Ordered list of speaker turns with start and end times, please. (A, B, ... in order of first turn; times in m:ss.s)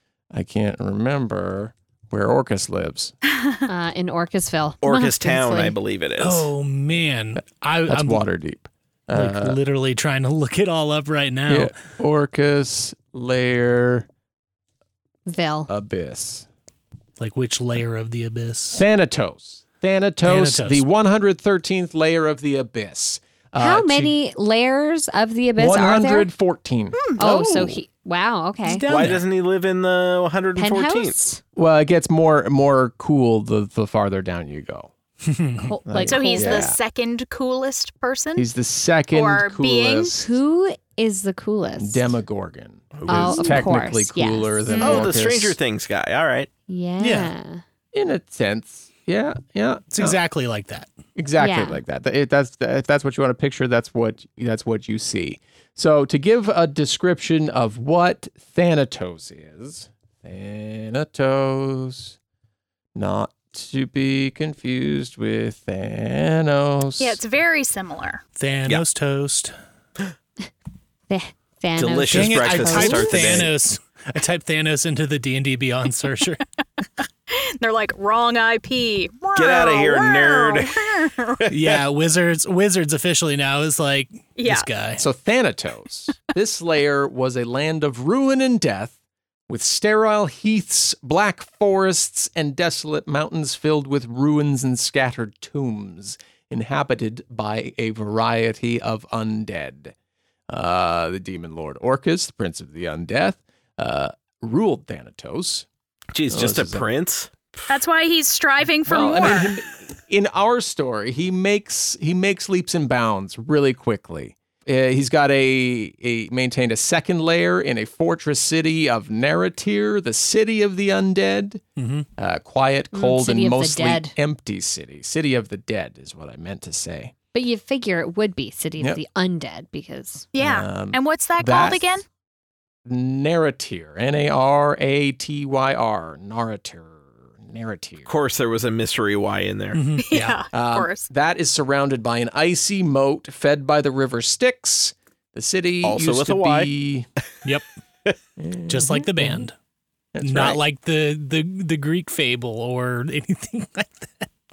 0:00.3-0:03.1 A
0:03.7-0:05.8 B
0:04.8-0:06.5 C
0:06.2-0:08.2 D
0:07.9-0:09.6 A
0:09.1-0:11.8 D
0:11.5-0:14.1 A
0:15.3-0:15.7 B
0:15.7-0:16.5 A
0:17.2-0:18.8 D
0:18.7-0:24.1 A
0:20.2-0:20.8 D
0:23.6-0:26.3 B
0:25.6-0:27.8 A
0:27.2-0:28.8 B
0:28.6-0:29.2 D
0:28.9-0:31.2 C
0:30.6-0:31.4 B
0:31.6-0:34.9 A
0:35.3-0:35.7 D
0:35.6-0:36.7 B
0:35.8-0:36.8 A
0:36.1-0:38.5 E
0:38.4-0:40.3 A
0:39.1-0:40.2 E
0:40.2-0:42.1 B
0:41.8-0:45.6 A
0:42.9-0:43.6 C
0:43.0-0:44.7 B
0:44.7-0:45.1 E
0:44.8-0:46.5 C
0:46.7-0:47.6 B
0:47.0-0:47.3 D
0:47.9-0:50.2 A
0:49.9-0:50.9 D
0:51.2-1:02.2 A
0:51.4-0:51.8 B
1:02.9-1:07.2 A
1:07.0-1:08.2 E
1:08.4-1:09.5 D
1:11.1-1:13.3 B
1:11.8-1:13.5 C
1:12.1-1:16.4 D
1:17.3-1:21.4 E
1:19.3-1:21.8 C
1:21.5-1:25.0 D
1:24.4-1:24.7 E
1:25.0-1:29.0 A
1:29.5-1:39.9 A
1:40.5-1:45.6 A
1:46.1-1:47.3 C
1:46.3-1:46.9 A
1:47.7-1:49.6 E
1:48.9-2:01.6 A
2:01.8-2:02.0 D
2:02.2-2:07.1 A
2:02.9-2:04.1 B
2:07.3-2:10.2 B
2:10.3-2:12.0 E
2:10.4-2:12.0 A
2:12.8-2:18.1 A
2:18.0-2:19.8 C
2:19.7-2:20.4 D
2:20.0-2:21.1 E
2:20.5-2:27.1 A
2:25.8-2:26.7 C
2:28.4-2:29.5 A
2:28.7-2:29.5 D
2:30.1-2:30.6 A
2:30.2-2:34.3 D